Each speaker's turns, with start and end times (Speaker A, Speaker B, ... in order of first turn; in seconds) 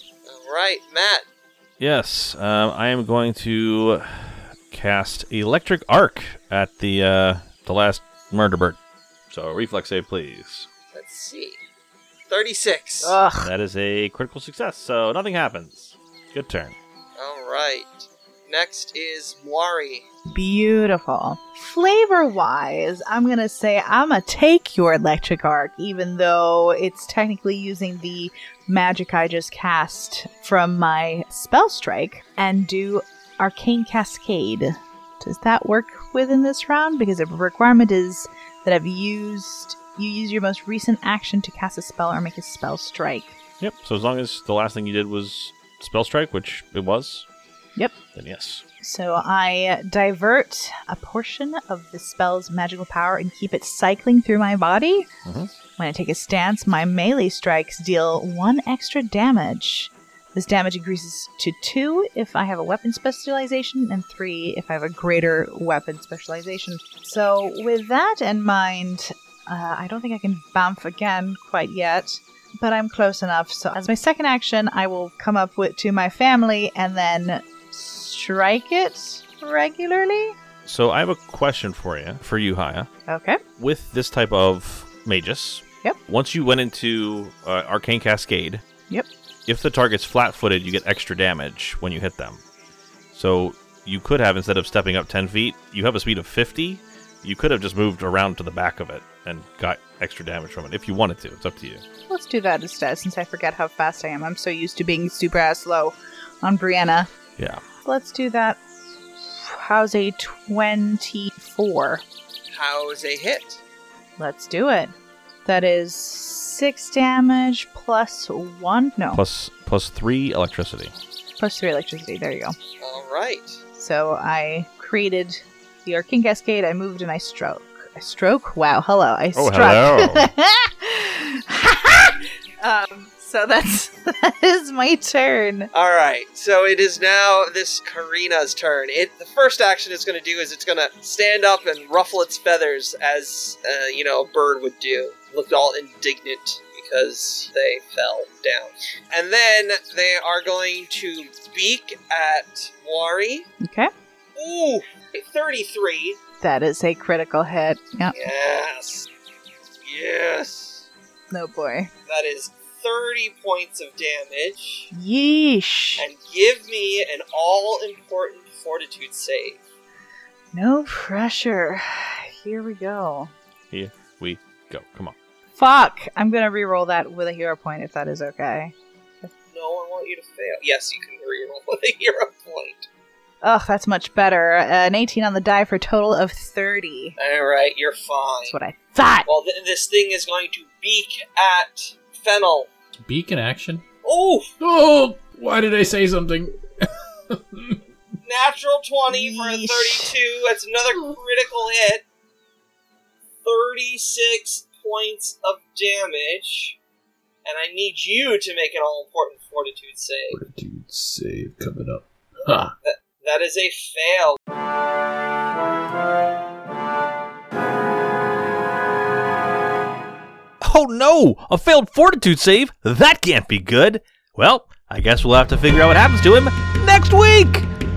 Speaker A: 0.2-1.2, 10.9-11.6, 12.3-13.2, 17.2-20.1, 112.5-113.6, 122.8-123.6, 135.7-153.5, 154.3-156.2, 158.1-159.1, 159.8-160.9, 162.1-164.9, 166.0-169.6, 179.5-182.9, 187.2-188.6, 189.2-192.7, 194.0-194.5, 198.2-202.0, 203.4-206.8, 207.4-210.4, 212.8-214.4
Speaker B: 1.8-8.8, 9.3-10.7, 13.4-16.8, 43.6-47.2, 48.1-48.6, 80.7-82.9, 83.6-88.6, 89.5-92.4, 93.1-101.8, 119.1-120.9, 129.3-130.3, 173.7-175.1, 220.6-227.7
Speaker C: 13.0-13.5, 20.3-43.4, 48.8-55.1, 55.8-80.3, 83.1-83.4, 102.1-107.1, 107.8-112.0, 114.2-114.9, 115.4-119.2, 121.4-122.5, 123.7-135.7, 153.6-153.9, 156.4-158.1, 161.3-161.9, 164.9-166.1, 170.5-173.3, 175.6-179.3, 183.4-187.2, 188.5-189.3, 199.1-200.1
Speaker D: 193.0-193.8, 194.6-197.8, 210.3-212.7